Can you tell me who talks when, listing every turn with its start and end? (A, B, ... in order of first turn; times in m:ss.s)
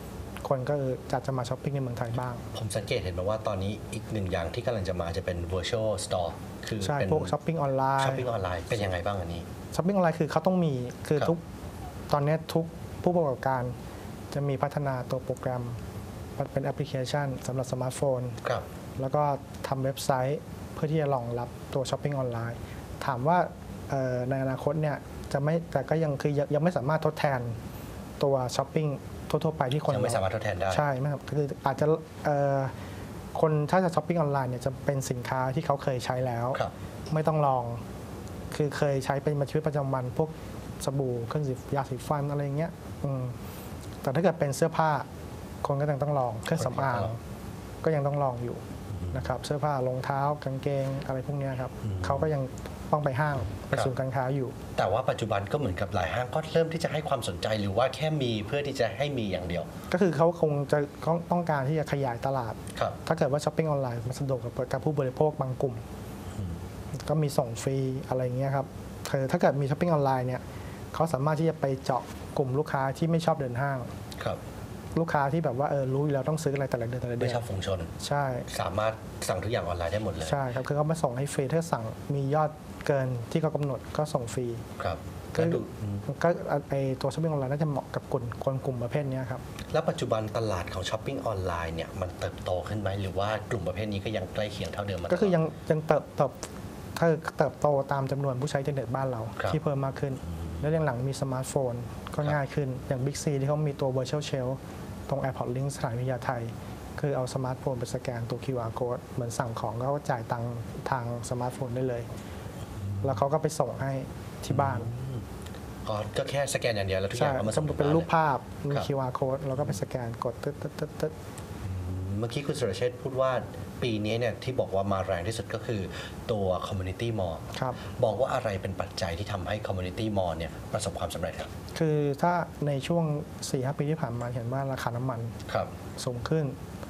0:00.4-0:02.4 A
0:02.5-0:07.3 B
0:06.8-0:08.3 A
0:08.0-0:09.5 B
0:09.7-0:11.4 A
0:12.1-0:13.8 A
0:14.3-0:15.8 A
0:16.4-0:18.4 A
0:19.0-0:27.6 A
0:28.2-0:32.7 A
0:29.8-0:30.8 B
0:33.3-0:37.8 A
0:38.5-0:43.4 A
0:44.0-0:45.1 A
0:45.6-0:47.2 A
0:46.5-0:47.1 B
0:47.8-0:54.6 A
0:48.9-0:49.3 B
0:51.8-0:52.3 B
0:54.8-0:59.7 B
0:59.9-1:05.8 A
1:07.0-1:13.9 A
1:14.9-1:17.4 A
1:17.2-1:17.9 B
1:18.0-1:18.5 A
1:18.5-1:20.4 B
1:20.2-1:24.6 A
1:24.8-1:26.0 B
1:25.3-1:29.4 A
1:29.7-1:35.4 B
1:35.1-1:36.4 A
1:36.9-1:52.1 A
1:52.9-1:53.2 B
1:53.0-1:54.9 A
1:54.5-1:55.2 B
1:55.8-1:58.1 B
1:57.1-2:01.1 A
2:01.6-2:07.4 B
2:07.5-2:07.8 A
2:08.0-2:11.5 B
2:11.7-2:15.3 A
2:15.5-2:15.7 B
2:16.0-2:16.6 A